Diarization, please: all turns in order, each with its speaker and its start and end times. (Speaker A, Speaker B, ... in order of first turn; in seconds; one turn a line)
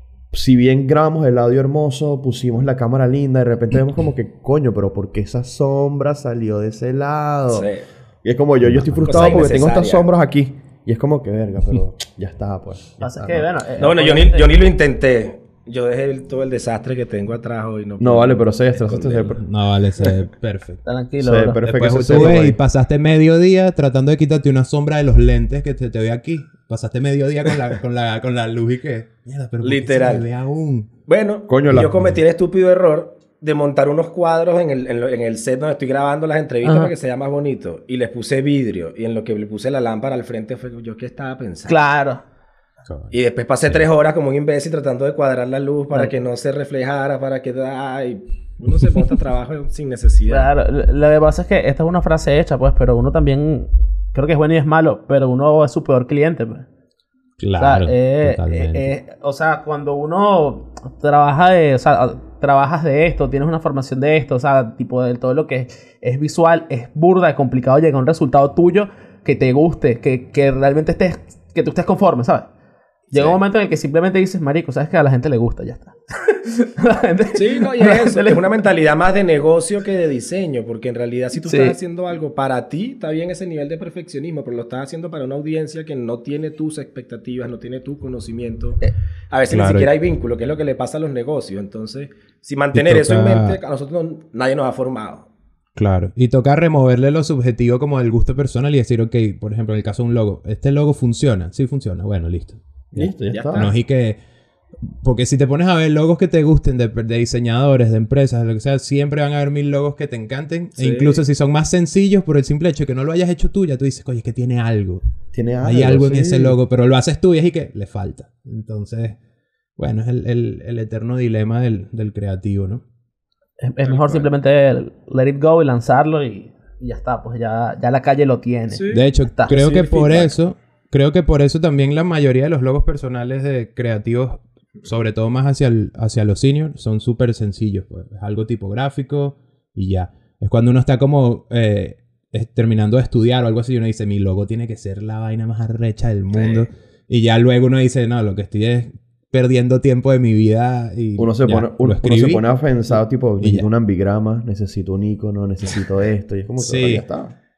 Speaker A: 0.3-7.7
Speaker B: 7.5-7.8
Speaker A: 8.2-13.5
Speaker C: 8.7-9.3
Speaker B: 9.0-10.1
Speaker D: 13.0-14.5
Speaker B: 13.8-19.4
Speaker A: 18.0-19.4
Speaker C: 19.4-20.9
Speaker D: 20.9-22.4
Speaker A: 21.2-22.6
Speaker C: 21.6-30.9
Speaker B: 29.6-30.2
Speaker B: 31.1-41.8
Speaker A: 31.5-32.0
Speaker C: 31.7-32.1
Speaker D: 36.6-36.9
Speaker D: 41.7-42.2
Speaker C: 42.9-43.9
Speaker B: 43.1-50.5
Speaker D: 50.3-56.7
Speaker C: 57.4-58.9
Speaker D: 57.6-72.5
Speaker D: 73.1-78.4
Speaker B: 77.3-95.3
Speaker D: 81.4-81.8
Speaker C: 89.5-89.9
Speaker C: 92.7-93.6
Speaker C: 95.8-104.2
Speaker A: 103.0-103.7
Speaker B: 103.3-103.7
Speaker C: 104.9-115.0
Speaker B: 110.8-111.2
Speaker A: 115.3-116.6
Speaker C: 115.6-119.2
Speaker C: 119.8-122.8
Speaker D: 123.6-129.6
Speaker B: 123.8-124.3
Speaker B: 128.7-130.3
Speaker C: 128.9-152.4
Speaker B: 146.3-146.7
Speaker A: 151.2-157.3
Speaker C: 153.4-153.7
Speaker C: 156.6-157.1